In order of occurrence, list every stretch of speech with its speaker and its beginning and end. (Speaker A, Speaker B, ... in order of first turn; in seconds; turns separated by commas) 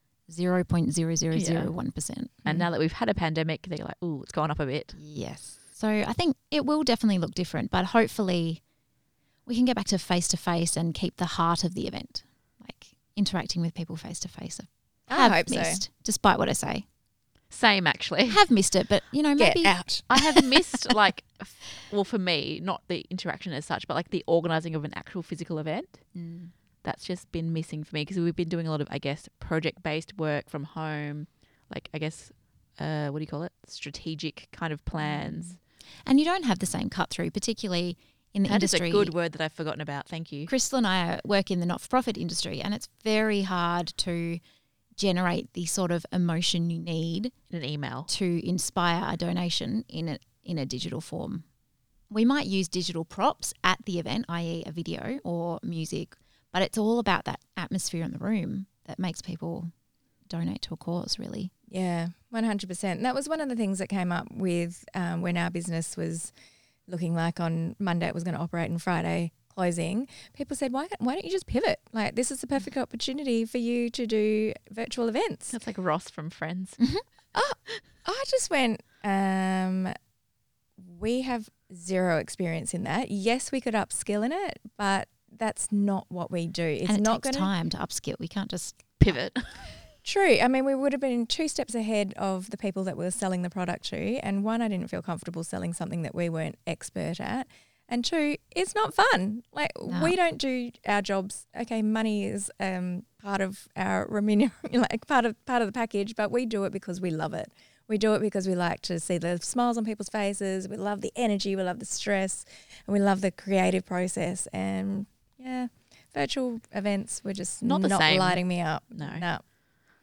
Speaker A: 0.3-2.6, Speaker B: 1.3-1.7, Speaker B: 2.5-5.0, Speaker A: 5.0-8.6, Speaker A: 9.5-16.9, Speaker C: 15.1-15.8, Speaker B: 17.5-18.4, Speaker A: 18.3-19.8, Speaker C: 19.4-20.4, Speaker B: 20.1-26.1, Speaker A: 26.1-26.5, Speaker B: 26.8-35.6, Speaker A: 35.0-35.5, Speaker A: 36.0-39.1, Speaker B: 38.5-40.5, Speaker A: 40.5-44.4, Speaker A: 45.0-47.3, Speaker B: 47.5-48.1, Speaker A: 48.1-51.4, Speaker A: 52.1-59.7, Speaker A: 60.3-61.5, Speaker C: 61.7-66.3, Speaker C: 66.9-75.6, Speaker B: 75.5-76.8, Speaker C: 77.3-79.9, Speaker C: 80.8-87.5, Speaker A: 86.9-89.2, Speaker B: 89.0-89.8, Speaker C: 90.0-119.4, Speaker A: 99.9-100.2, Speaker B: 117.6-119.3